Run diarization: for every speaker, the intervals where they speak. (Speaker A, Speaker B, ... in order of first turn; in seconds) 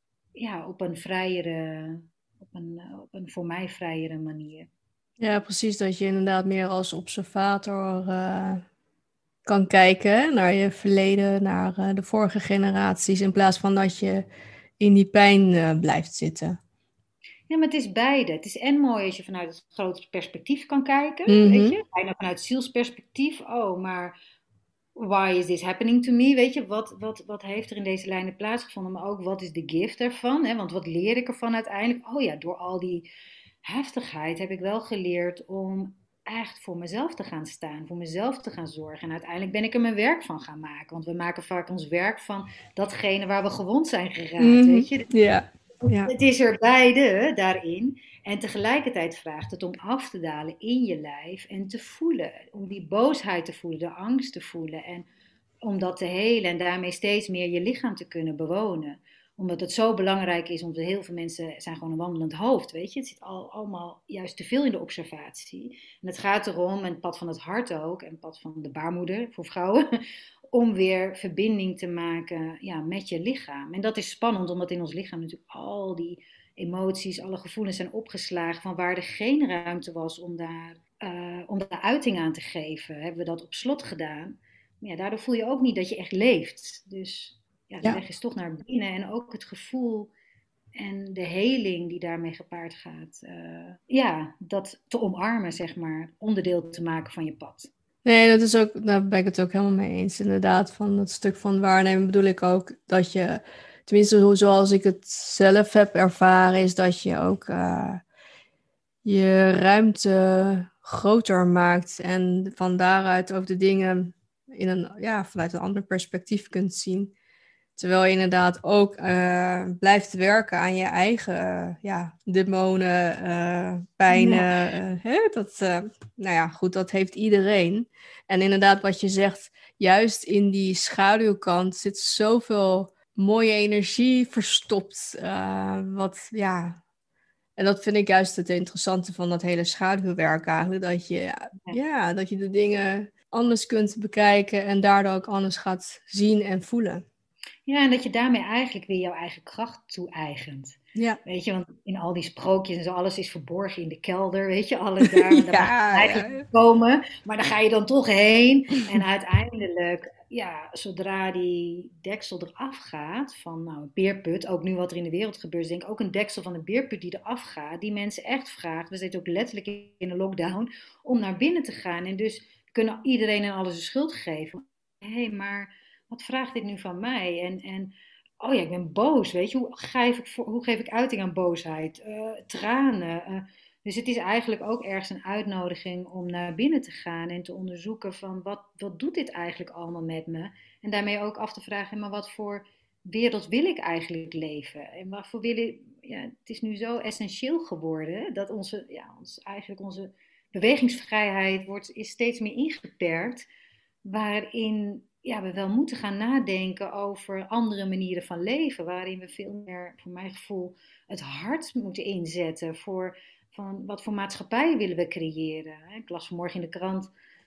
Speaker A: 0.3-4.7, 17.5-24.1, 24.9-33.1, 33.6-45.1, 45.9-55.1, 55.6-69.9, 70.5-90.1, 90.8-97.7, 124.1-124.5, 147.7-203.5, 204.1-217.1
Speaker B: 5.2-8.6, 9.4-14.2, 14.8-16.6, 21.3-21.8, 44.4-46.1, 98.0-108.0, 109.0-117.1, 117.8-136.8, 137.6-147.0, 155.0-156.4